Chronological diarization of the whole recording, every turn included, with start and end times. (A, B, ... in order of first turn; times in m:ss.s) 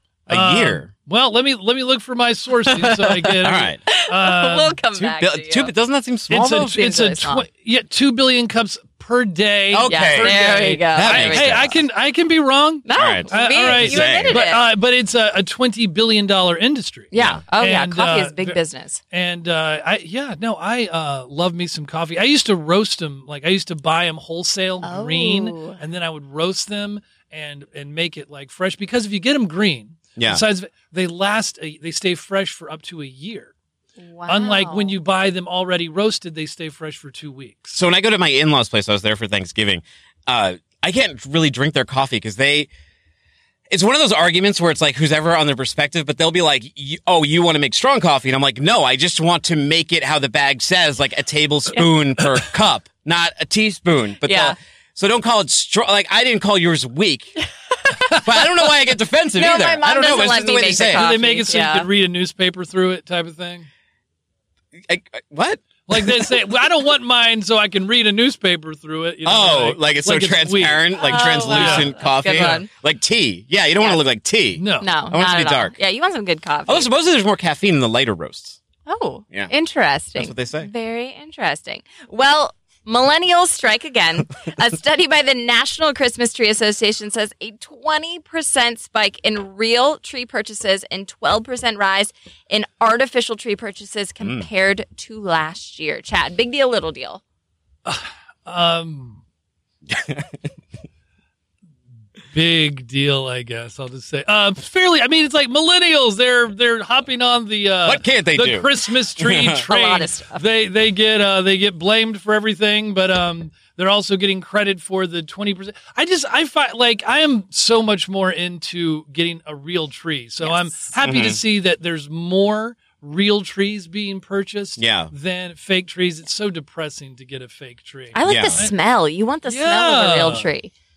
0:00.3-0:00.9 A
0:00.3-0:04.8 B
0:02.7-0:03.0 C
0:03.4-0:03.8 A
0:03.9-0:05.7 C
0:04.9-0:06.8 A
0:06.3-0:18.6 B
0:06.6-0:07.5 C
0:09.7-0:11.8 A
0:09.9-0:11.8 C
0:12.8-0:14.7 C
0:13.0-0:14.4 A
0:17.1-0:19.0 C
0:17.2-0:17.4 A
0:19.1-0:33.5 B
0:24.8-0:25.8 C
0:30.2-0:30.4 A
0:34.0-0:35.0 C
0:34.3-0:37.8 B
0:37.8-0:42.7 A
0:43.7-0:57.4 A
0:54.2-0:54.6 C
0:57.8-0:58.5 C
0:58.2-1:01.1 A
0:59.4-1:01.9 C
1:00.9-1:03.7 B
1:04.9-1:06.3 A
1:05.9-1:12.6 B
1:09.2-1:15.7 A
1:10.9-1:12.7 C
1:14.6-1:14.9 B
1:14.8-1:16.9 C
1:16.7-1:18.6 A
1:18.9-1:37.2 C
1:20.2-1:20.7 A
1:34.2-1:34.5 A
1:37.8-1:39.2 B
1:39.9-1:40.3 A
1:42.3-2:08.7 B
1:47.9-1:49.6 A
1:49.6-1:50.5 C
2:00.4-2:01.0 C
2:01.0-2:01.4 A
2:04.8-2:05.1 A
2:08.1-2:10.7 C
2:08.2-2:08.6 A
2:09.5-2:10.5 B